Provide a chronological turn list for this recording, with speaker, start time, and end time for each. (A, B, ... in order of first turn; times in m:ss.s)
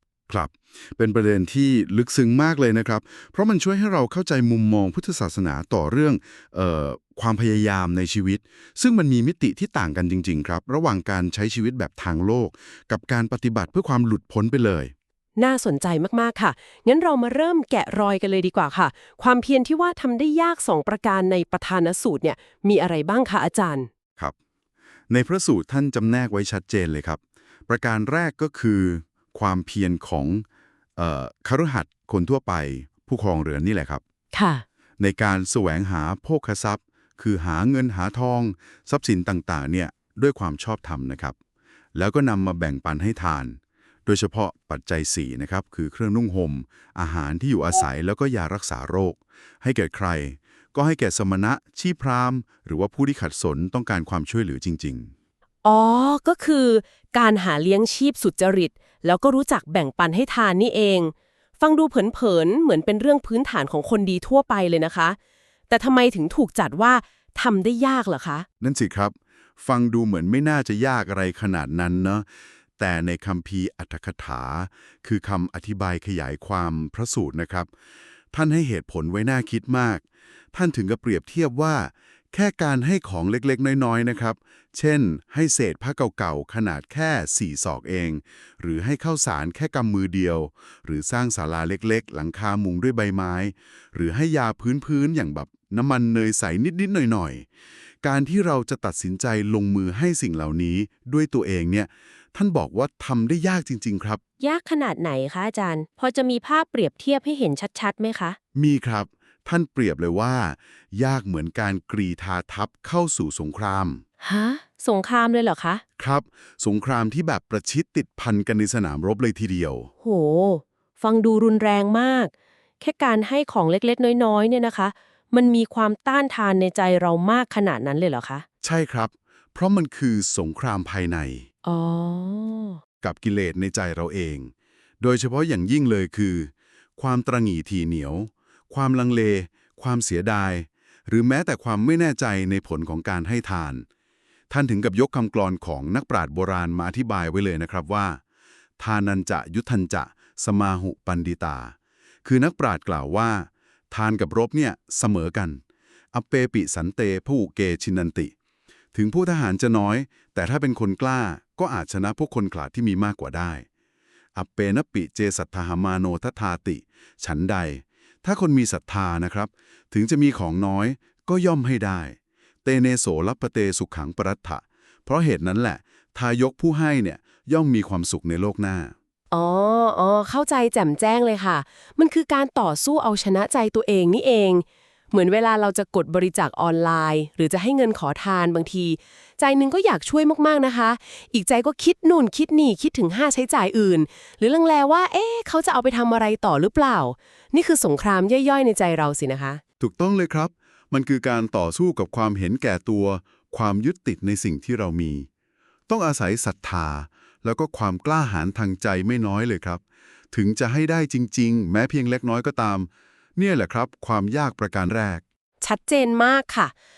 0:00.3-0:14.9 A
0:15.4-0:23.9 B
0:25.1-0:30.4 A
0:31.0-0:34.0 A
0:34.3-0:34.6 B
0:35.0-0:41.4 A
0:41.9-0:55.1 A
0:55.6-1:05.2 B
1:05.7-1:08.4 B
1:08.6-1:12.2 A
1:12.8-1:17.7 A
1:18.3-1:37.4 A
1:38.0-1:44.2 A
1:44.4-1:48.4 B
1:48.5-1:54.0 A
1:54.2-1:55.8 B
1:56.0-1:59.9 A
2:00.0-2:08.4 B
2:08.6-2:11.4 A
2:11.6-2:12.8 B
2:13.0-2:23.8 A
2:24.5-2:28.2 A
2:28.8-2:35.6 A
2:36.1-2:38.3 A
2:38.9-2:43.6 A
2:44.3-2:58.9 A
2:59.3-3:19.6 B
3:19.8-3:25.3 A
3:25.9-3:35.2 A
3:35.6-3:36.7 B